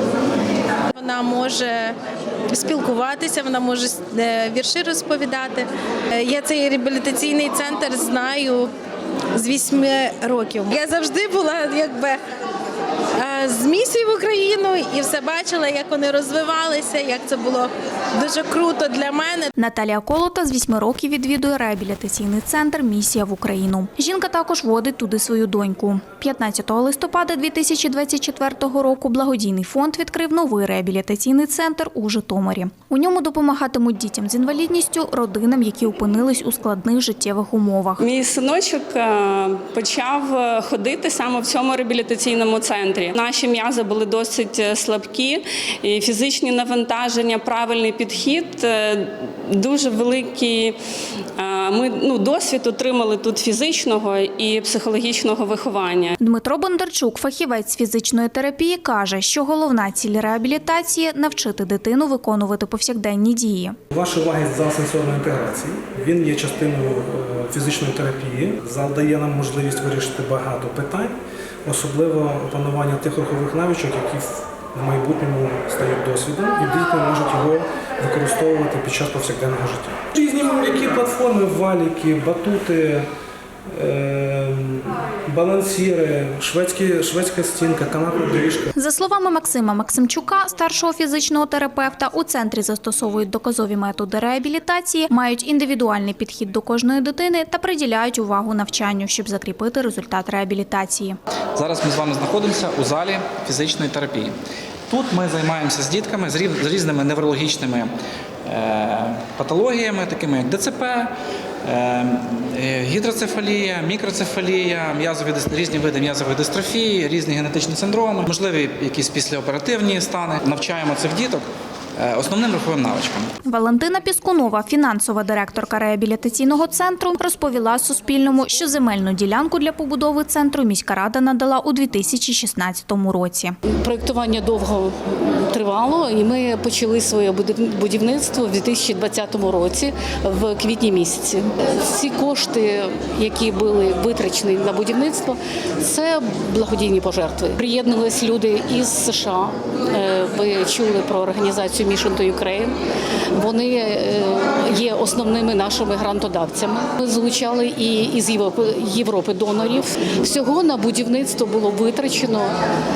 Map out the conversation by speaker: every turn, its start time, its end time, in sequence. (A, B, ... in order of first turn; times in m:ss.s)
0:00.9-0:02.0 A
0:02.5-0:08.7 A
0:09.3-0:12.2 A
0:13.2-0:19.5 A
0:19.6-0:38.0 B
0:38.0-0:50.8 C
0:51.4-0:56.1 C
0:56.2-1:03.7 B
1:03.9-1:23.1 D
1:23.7-1:28.7 D
1:28.8-1:41.2 B
1:41.5-1:44.4 E
1:44.9-1:47.9 E
1:48.4-2:01.4 E
2:02.0-2:03.3 E
2:03.4-2:13.5 B
2:13.8-2:32.7 F
2:33.3-2:42.5 F